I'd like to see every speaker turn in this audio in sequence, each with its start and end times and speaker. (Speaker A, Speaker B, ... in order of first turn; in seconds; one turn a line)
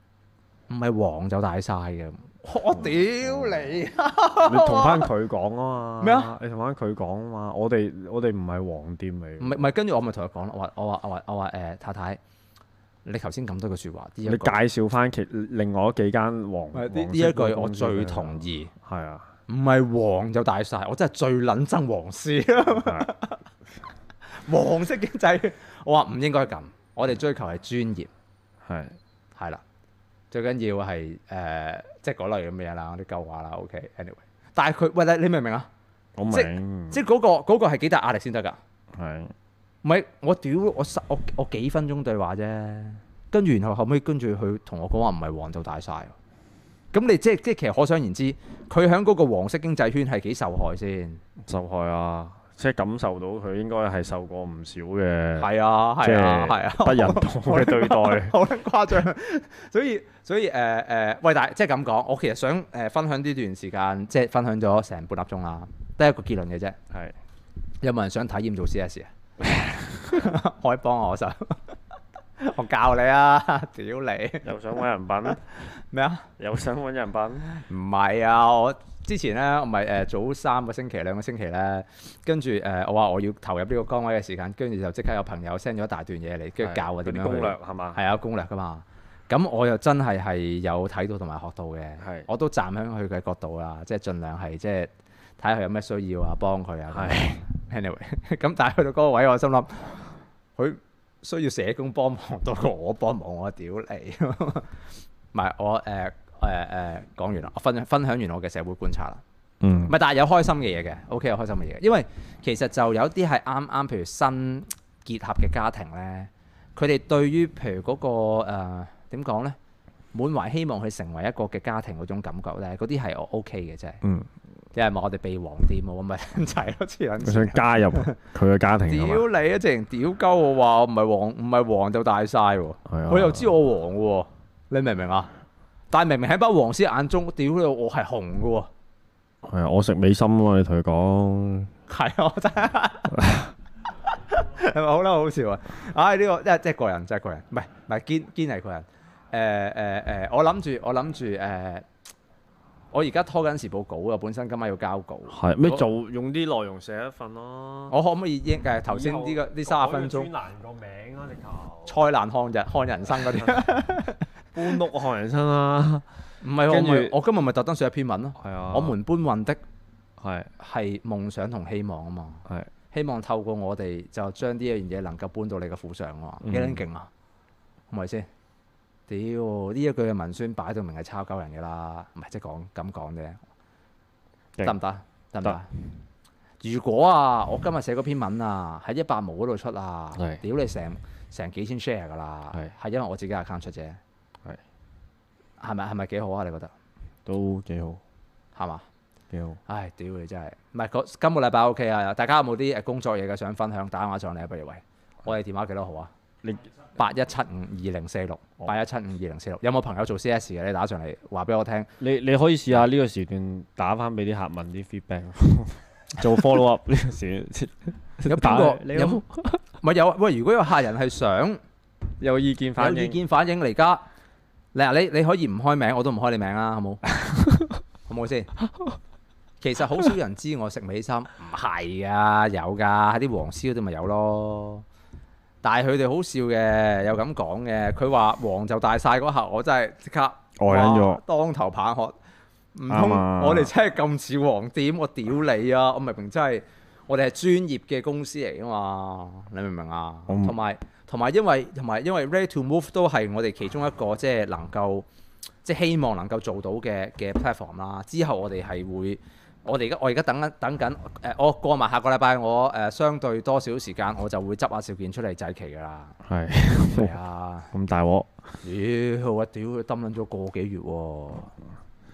Speaker A: 0.7-5.1
Speaker B: 4.4-9.6
Speaker A: 6.0-6.3
Speaker A: 9.4-12.2
Speaker A: 13.0-14.6
Speaker B: 14.2-19.3
Speaker A: 16.7-18.7
Speaker A: 19.5-23.4
Speaker B: 22.8-23.1
Speaker A: 24.4-28.1
Speaker B: 28.6-29.0
Speaker A: 29.4-29.6
Speaker A: 30.3-35.7
Speaker B: 36.2-37.0
Speaker A: 36.3-38.6
Speaker B: 39.0-39.3
Speaker A: 39.8-46.1
Speaker A: 46.9-51.2
Speaker B: 51.4-55.5
Speaker A: 55.4-66.8
Speaker B: 56.0-58.3
Speaker A: 67.8-69.1
Speaker A: 70.0-71.8
Speaker A: 72.4-74.5
Speaker B: 74.4-75.4
Speaker A: 75.3-76.3
Speaker B: 76.4-77.5
Speaker A: 77.5-104.8
Speaker B: 86.6-88.0
Speaker B: 92.0-92.3
Speaker B: 96.9-97.4
Speaker A: 105.3-109.2
Speaker B: 109.6-109.9
Speaker A: 109.9-119.5
Speaker A: 120.1-124.0
Speaker B: 124.0-124.3
Speaker A: 124.7-128.2
Speaker B: 127.2-129.2
Speaker A: 128.9-135.3
Speaker B: 132.9-133.5
Speaker A: 135.9-138.7
Speaker B: 139.4-141.7
Speaker A: 141.9-143.3
Speaker B: 143.2-143.5
Speaker A: 144.1-151.8
Speaker A: 152.9-155.8
Speaker B: 155.3-157.9
Speaker A: 157.9-160.3
Speaker B: 158.9-162.0
Speaker A: 161.9-164.2
Speaker B: 163.2-163.6
Speaker B: 164.5-166.0
Speaker A: 166.4-169.6
Speaker B: 166.7-167.1
Speaker B: 168.4-168.9
Speaker B: 170.2-170.5
Speaker A: 170.6-177.1
Speaker B: 176.4-176.8
Speaker A: 177.9-178.3
Speaker A: 179.1-183.4
Speaker A: 184.6-185.7
Speaker A: 186.6-194.0
Speaker A: 195.6-196.7
Speaker B: 197.2-198.0
Speaker A: 198.6-198.8
Speaker B: 199.3-199.6
Speaker A: 199.7-206.1
Speaker A: 206.9-211.9
Speaker B: 212.0-219.6
Speaker A: 218.2-219.2
Speaker A: 219.8-221.6
Speaker B: 222.2-223.2
Speaker A: 222.8-224.0
Speaker A: 224.7-227.0
Speaker A: 228.1-228.5
Speaker A: 229.6-234.8
Speaker A: 235.6-242.1
Speaker B: 240.6-241.2
Speaker A: 242.7-255.1
Speaker B: 242.9-243.7
Speaker B: 250.3-250.5
Speaker A: 255.6-266.2
Speaker B: 266.2-267.1
Speaker A: 266.9-267.7
Speaker B: 267.7-268.3
Speaker A: 268.6-271.5